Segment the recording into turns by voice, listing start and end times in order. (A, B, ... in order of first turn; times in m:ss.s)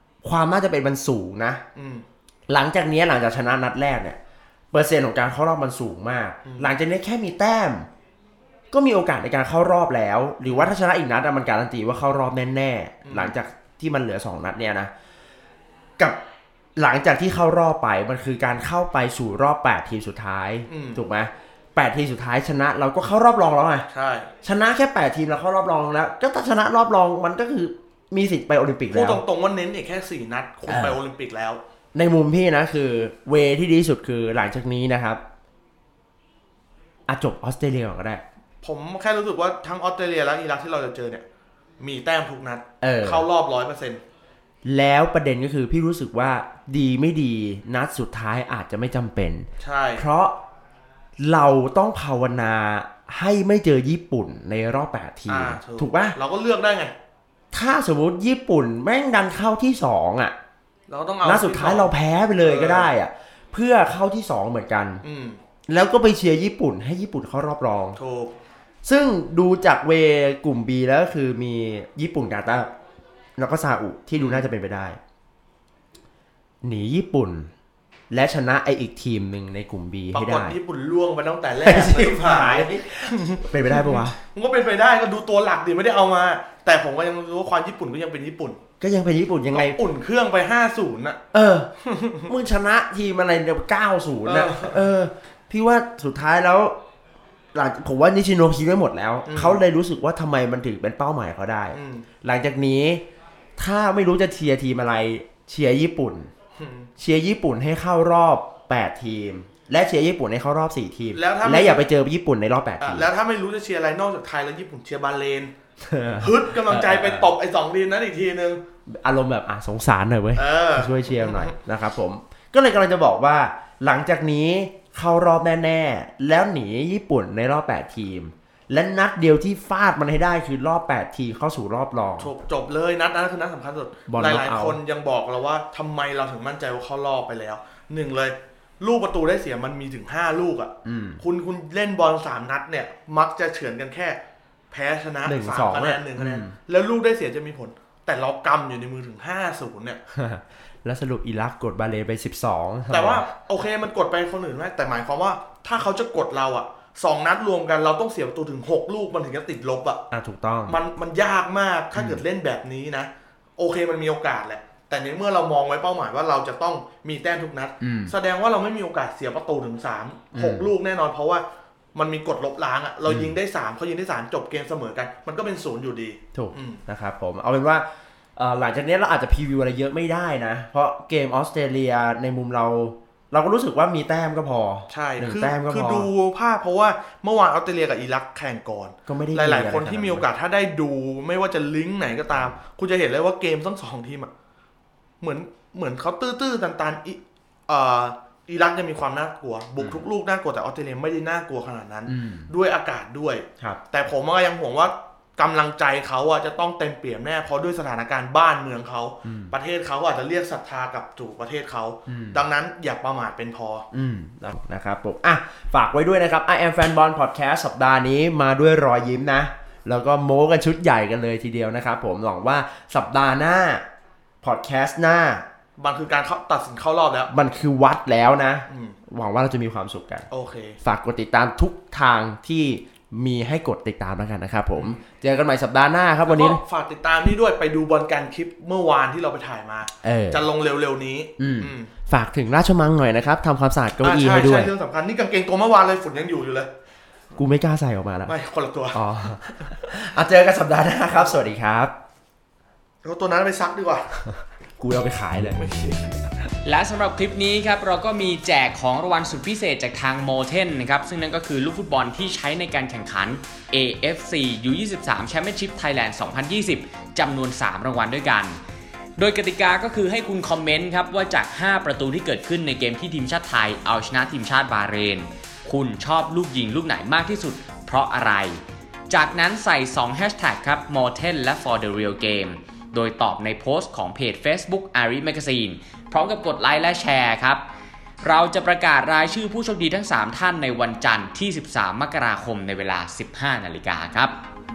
0:00.2-0:01.6 A
0:01.7-0:02.0 B
0:02.5-0:04.2 A
0:04.7-0:07.9 A
0:06.4-0:06.7 B
0:08.7-0:14.9 A
0:10.4-0:10.7 B
0:13.0-0:13.4 B
0:16.8-0:23.9 A
0:20.7-0:21.0 B
0:23.9-0:24.3 B
0:24.4-0:29.2 A
0:28.9-0:31.6 B
0:30.6-0:31.0 A
0:31.9-0:35.2 A
0:37.1-0:38.2 A
0:38.6-0:41.2 B
0:41.8-0:44.0 B
0:42.8-0:43.2 A
0:44.6-0:50.4 A
0:49.6-0:50.1 B
0:51.2-0:56.2 A
0:55.3-0:56.9 B
0:57.5-1:00.3 A
1:00.9-1:02.9 B
1:01.2-1:05.0 A
1:05.0-1:05.4 B
1:05.7-1:08.0 A
1:08.0-1:08.3 B
1:08.8-1:12.7 A
1:13.4-1:15.0 A
1:14.1-1:14.5 B
1:16.6-1:17.5 A
1:18.1-1:20.6 A
1:20.1-1:28.6 B
1:21.6-1:24.2 A
1:28.8-1:29.8 A
1:29.5-1:31.2 B
1:31.3-1:31.7 A
1:31.8-1:32.3 B
1:32.3-1:36.8 A
1:34.2-1:34.8 B
1:37.5-1:43.0 A
1:39.2-1:39.6 B
1:41.7-1:42.1 B
1:43.6-1:46.3 A
1:46.6-1:46.9 B
1:47.0-1:53.1 A
1:51.1-1:51.9 B
1:52.8-1:55.5 B
1:55.8-1:57.3 A
1:56.2-1:58.6 B
1:58.9-2:12.3 A
2:00.4-2:01.5 B
2:12.2-2:24.2 B
2:14.1-2:14.8 A
2:20.8-2:21.2 A
2:24.7-2:30.0 B
2:25.2-2:26.6 A
2:30.1-2:33.3 A
2:32.9-2:40.0 B
2:40.1-2:40.8 A
2:40.7-2:51.4 B
2:41.9-2:42.2 A
2:47.8-2:48.1 A
2:50.3-2:50.7 A
2:51.9-2:56.8 B
2:53.0-2:53.4 A
2:56.3-3:06.1 A
3:04.9-3:14.3 B
3:09.0-3:10.3 A
3:15.2-3:33.8 B
3:19.8-3:20.0 A
3:22.1-3:22.5 A
3:29.2-3:29.5 A
3:32.1-3:32.4 A
3:33.9-3:43.8 A
3:44.4-3:45.4 A
3:45.8-3:47.3 B
3:47.3-3:50.3 A
3:48.7-3:49.0 B
3:50.3-3:50.8 B
3:50.8-3:56.6 A
3:54.7-3:55.0 B
3:56.2-4:01.9 B
4:00.0-4:00.4 A
4:01.4-4:04.7 A
4:04.0-4:06.7 B
4:07.3-4:08.4 A
4:08.2-4:09.0 B
4:08.9-4:11.9 A
4:13.0-4:14.1 B
4:14.2-4:16.1 A
4:15.6-4:16.2 B
4:16.6-4:28.6 C
4:29.2-4:47.6 C
4:48.2-4:54.4 C